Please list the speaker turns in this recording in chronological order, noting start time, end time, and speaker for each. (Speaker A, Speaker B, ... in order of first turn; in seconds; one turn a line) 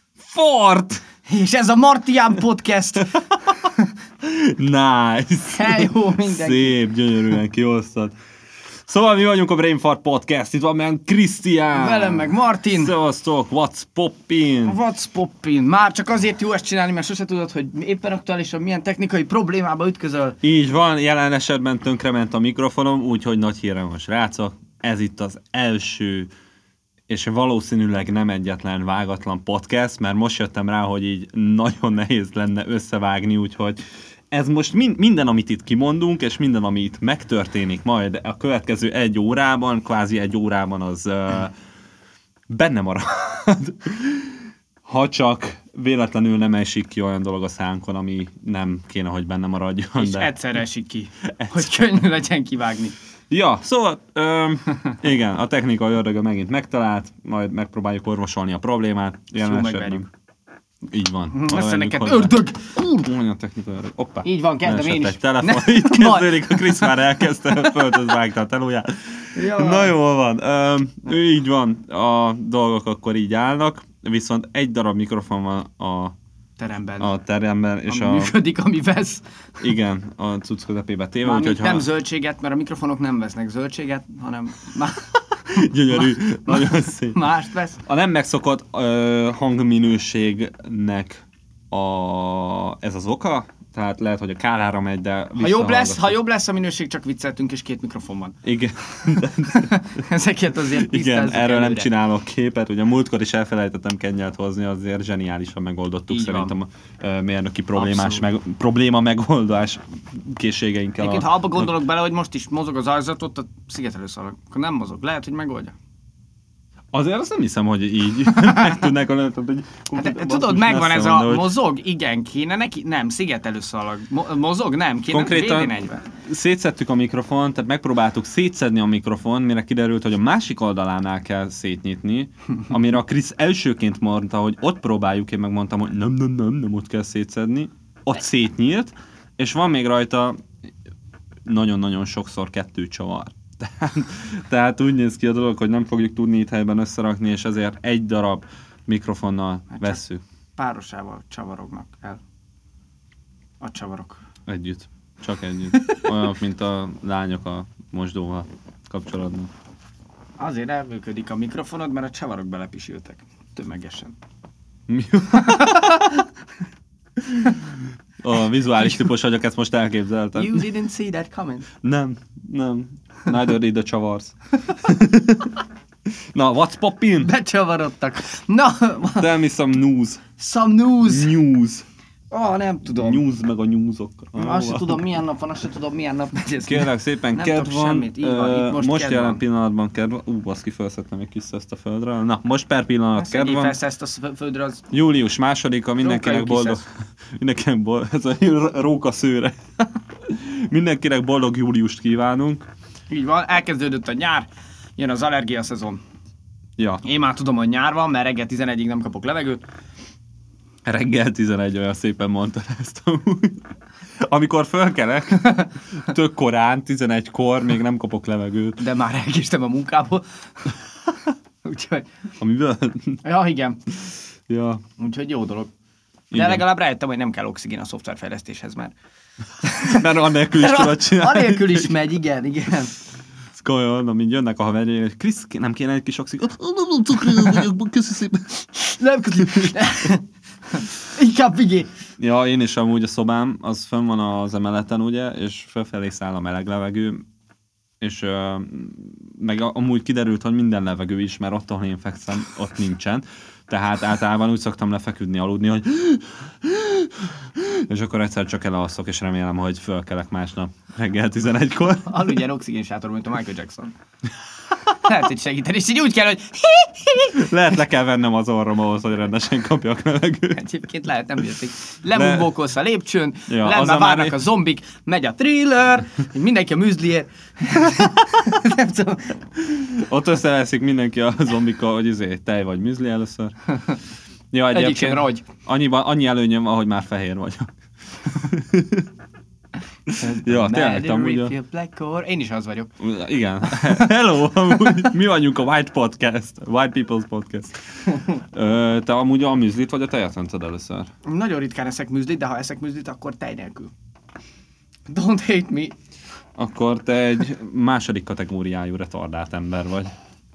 Speaker A: 0.2-1.1
Speaker B: 1.2-3.9
Speaker A: 4.2-8.2
Speaker B: 5.5-6.8
Speaker A: 8.9-14.8
Speaker B: 11.7-12.9
Speaker B: 14.7-20.4
Speaker A: 20.4-26.3
Speaker A: 27.1-41.5
Speaker A: 42.5-50.3
Speaker B: 50.0-53.0
Speaker A: 51.2-51.9
Speaker A: 53.3-60.1
Speaker B: 59.4-60.1
Speaker A: 60.9-62.4
Speaker B: 61.3-63.1
Speaker A: 62.9-76.1
Speaker B: 64.2-68.0
Speaker B: 69.3-70.0
Speaker B: 76.6-77.1
Speaker A: 77.0-78.3
Speaker B: 77.9-79.2
Speaker A: 79.6-81.9
Speaker B: 81.2-87.8
Speaker A: 85.5-87.3
Speaker A: 87.8-96.2
Speaker B: 95.4-98.4
Speaker A: 98.4-100.0
Speaker B: 99.0-101.9
Speaker A: 100.7-111.7
Speaker B: 106.1-106.5
Speaker B: 107.8-108.2
Speaker B: 111.0-115.8
Speaker A: 116.9-121.5
Speaker B: 120.0-126.0
Speaker A: 125.1-140.4
Speaker A: 141.5-150.2
Speaker B: 149.7-150.0
Speaker B: 150.6-152.2
Speaker B: 153.6-154.2
Speaker A: 154.5-159.5
Speaker B: 160.4-164.2
Speaker A: 164.9-166.2
Speaker B: 165.5-166.0
Speaker A: 167.2-170.7
Speaker B: 170.3-171.7
Speaker A: 171.8-175.6
Speaker A: 176.3-177.3
Speaker B: 177.2-179.3
Speaker A: 179.2-180.3
Speaker B: 180.4-181.4
Speaker A: 181.1-181.8
Speaker B: 182.3-183.2
Speaker A: 183.0-185.0
Speaker B: 184.4-189.4
Speaker A: 186.7-193.8
Speaker B: 193.2-194.9
Speaker A: 194.9-202.7
Speaker B: 196.0-196.8
Speaker B: 203.1-206.0
Speaker A: 206.8-207.0
Speaker B: 207.0-209.6
Speaker A: 210.9-213.6
Speaker A: 214.2-218.8
Speaker B: 218.8-220.8
Speaker B: 221.6-222.1
Speaker A: 222.4-223.2
Speaker B: 223.2-223.8
Speaker A: 224.5-224.8
Speaker B: 225.0-225.7
Speaker A: 226.3-226.6
Speaker B: 226.3-228.9
Speaker B: 229.6-232.9
Speaker A: 229.7-231.9
Speaker A: 233.5-238.7
Speaker B: 238.8-241.9
Speaker A: 239.4-239.8
Speaker A: 242.2-247.2
Speaker A: 248.0-262.4
Speaker B: 262.1-263.9
Speaker B: 264.9-267.4
Speaker A: 267.3-270.7
Speaker B: 270.5-279.4
Speaker A: 272.1-272.5
Speaker A: 273.5-274.4
Speaker A: 279.6-283.6
Speaker A: 284.5-287.7
Speaker B: 284.7-285.4
Speaker A: 288.2-289.1
Speaker A: 290.1-291.5
Speaker B: 290.2-293.0
Speaker A: 293.0-301.1
Speaker B: 301.2-303.9
Speaker B: 305.1-305.9
Speaker A: 306.6-310.1